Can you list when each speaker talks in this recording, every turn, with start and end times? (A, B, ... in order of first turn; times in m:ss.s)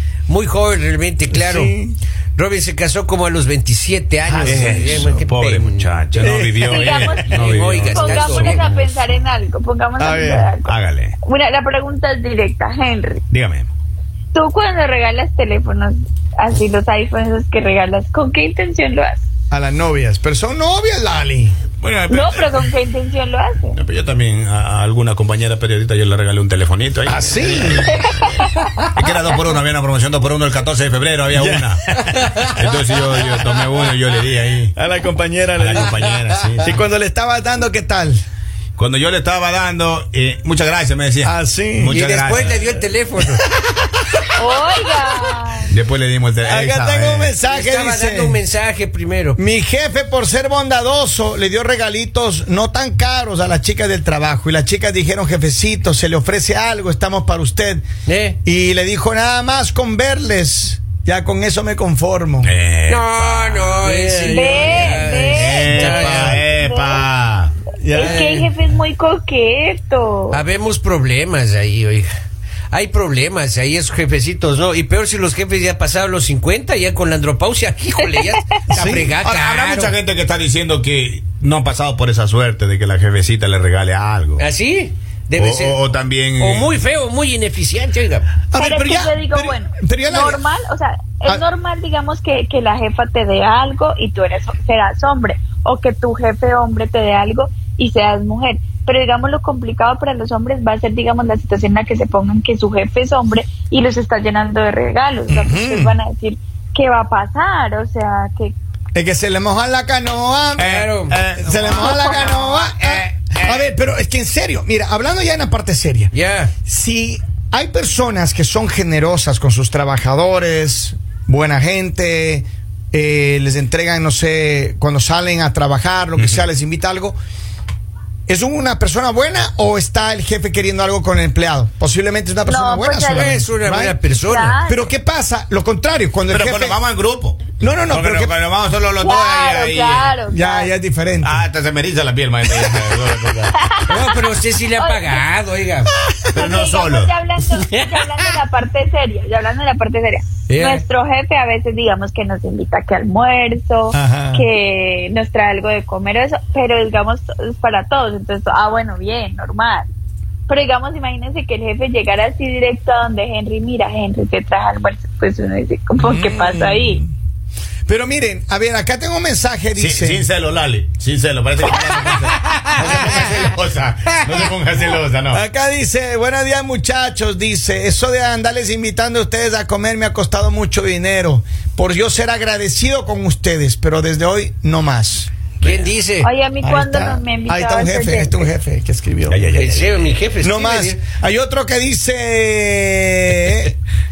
0:00.3-0:01.7 A
0:01.3-0:02.0 B
0:02.4-0:06.3 A
0:04.2-0:05.2 B
0:04.4-0:08.7 C
0:06.2-0:07.2 B
0:06.6-0:13.2 D
0:07.2-0:08.8 A
0:10.0-0:10.5 B
0:10.6-0:11.2 C
0:13.3-0:13.7 C
0:14.3-0:19.2 D
0:19.5-0:21.6 B
0:21.8-0:22.6 C
0:22.1-0:23.8 D
0:23.7-0:32.0 C
0:27.0-0:28.0 B
0:27.8-0:29.2 D
0:31.3-0:31.8 B
0:31.9-0:32.7 A
0:32.5-0:34.7 C
0:34.8-0:36.0 B
0:35.6-0:36.8 C
0:36.0-0:36.4 A
0:36.6-0:38.2 B
0:38.8-0:42.8 C
0:41.2-0:42.0 B
0:41.9-0:43.4 A
0:44.4-0:45.7 D
0:45.7-0:47.4 C
0:46.4-0:48.4 B
0:47.4-0:49.4 A
0:49.4-0:57.8 B
0:58.0-0:58.4 A
0:58.4-1:02.5 B
1:02.4-1:03.9 C
1:02.9-1:06.4 A
1:03.8-1:06.4 B
1:04.2-1:07.0 D
1:05.2-1:07.5 C
1:07.8-1:08.5 B
1:07.9-1:10.4 D
1:07.9-1:08.4 A
1:10.3-1:12.1 A
1:12.7-1:20.0 A
1:18.1-1:18.7 D
1:18.7-1:19.1 B
1:18.8-1:24.4 C
1:24.4-1:28.3 A
1:25.3-1:26.7 C
1:28.5-1:30.4 B
1:28.5-1:48.5 D
1:45.3-1:46.0 B
1:48.9-1:50.7 B
1:50.6-1:53.7 C
1:50.6-1:51.2 A
1:51.4-1:56.1 B
1:51.6-1:52.5 D
1:56.1-1:56.5 A
1:56.6-2:07.2 B
2:08.3-2:14.0 B
2:12.4-2:13.4 D
2:13.1-2:14.6 A
2:14.2-2:14.9 D
2:14.7-2:16.8 B
2:16.3-2:20.1 C
2:17.6-2:18.3 B
2:19.0-2:20.7 D
2:20.3-2:21.4 B
2:21.2-2:23.8 C
2:23.6-2:25.2 D
2:23.8-2:25.9 A
2:26.2-2:27.1 C
2:26.3-2:39.9 D
2:27.6-2:28.3 A
2:30.5-2:30.8 A
2:33.9-2:34.4 B
2:40.5-2:47.0 D
2:46.0-2:47.1 B
2:47.8-2:50.3 B
2:49.8-2:55.4 C
2:52.5-2:53.3 A
2:54.1-2:54.4 A
2:55.3-3:05.3 B
3:05.6-3:05.9 C
3:05.6-3:06.3 A
3:06.2-3:08.5 D
3:06.6-3:09.4 B
3:09.3-3:10.1 C
3:09.5-3:11.0 A
3:10.4-3:13.7 B